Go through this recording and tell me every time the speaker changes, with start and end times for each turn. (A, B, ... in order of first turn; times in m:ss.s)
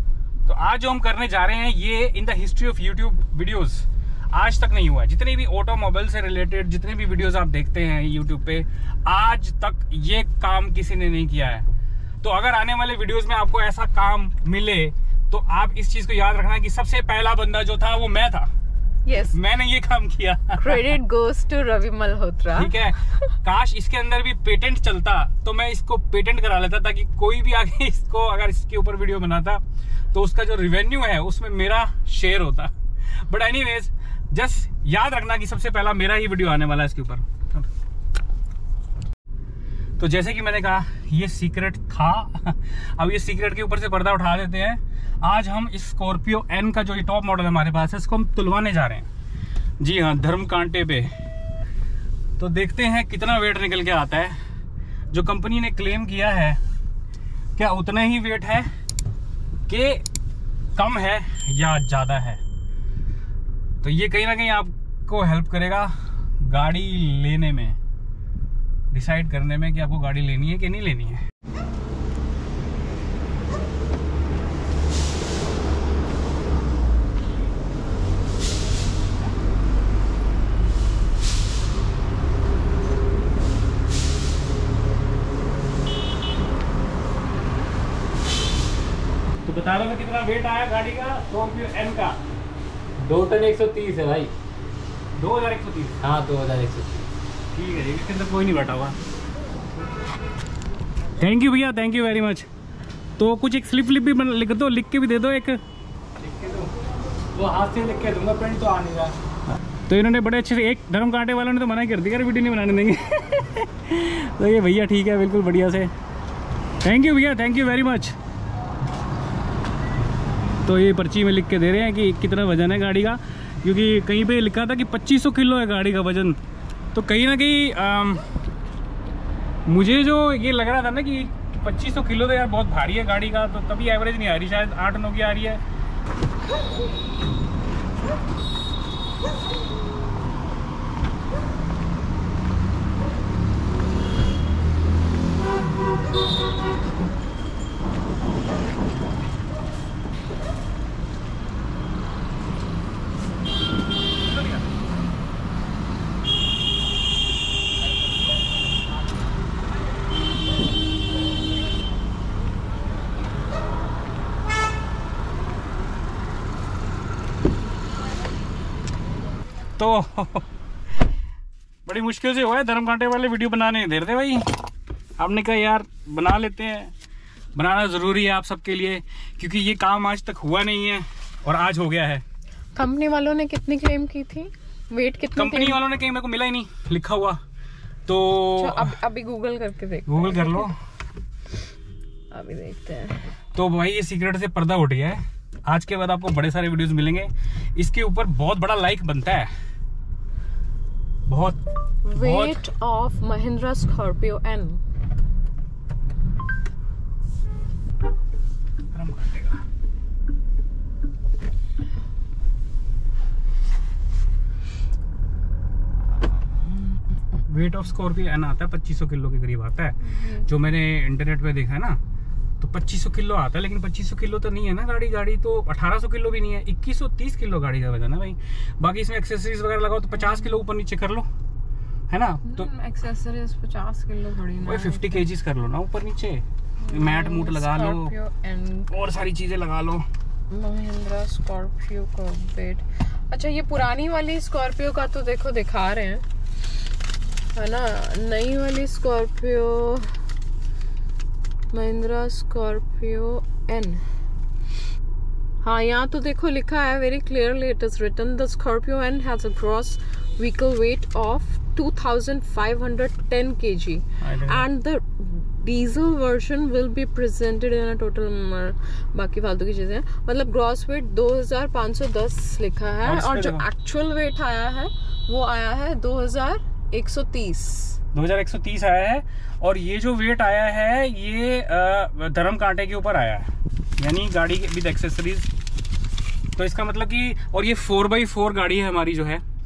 0:00.4-0:11.6 A
0:12.2-0:18.5 A
0:19.0-0:19.4 B
0:19.3-0:21.0 A
0:20.6-0:23.1 B
0:22.6-0:29.6 A
0:30.1-0:37.7 A
0:40.0-0:49.1 A
0:49.8-0:51.1 A
0:52.4-0:54.4 A
0:55.1-0:56.6 A
0:57.6-0:58.7 A
0:59.7-1:00.0 A
1:00.7-1:02.4 A
1:03.8-1:07.8 A
1:08.9-1:11.2 A
1:29.4-1:32.2 A
1:33.0-1:34.3 C
1:35.2-1:36.1 A
1:36.0-1:37.1 C
1:37.5-1:39.0 A
1:41.2-1:42.5 A
1:43.2-1:45.6 A
1:46.2-1:46.7 A
1:47.3-1:49.1 C
1:48.4-1:48.8 A
1:49.8-1:55.9 A
1:56.8-1:58.2 A
2:00.6-2:06.4 A
2:06.9-2:08.2 A
2:09.7-2:15.6 A
2:49.8-2:50.4 A
2:51.8-2:54.5 A
2:55.2-2:56.9 A
2:57.5-3:02.2 A
3:02.7-3:05.8 B
3:05.4-3:07.4 A
3:08.0-3:08.9 A
3:08.5-3:10.7 B
3:10.1-3:10.8 A
3:12.3-3:13.2 B
3:13.5-3:19.5 A
3:21.3-3:21.6 A
3:22.0-3:24.8 B
3:22.1-3:22.6 A
3:28.9-3:29.6 A
3:37.5-3:42.0 A
3:40.1-3:40.5 B
3:42.6-3:51.3 A
3:50.2-3:50.5 B
3:52.1-3:52.7 A
3:52.4-3:55.2 B
3:54.6-3:58.1 A
3:56.8-3:58.9 B
3:58.9-4:00.0 A
4:00.5-4:06.2 B
4:07.5-4:10.2 B
4:11.7-4:14.0 B
4:15.6-4:38.0 B
4:24.2-4:24.6 A
4:33.0-4:33.6 A
4:38.1-4:45.5 A
4:46.6-4:49.4 A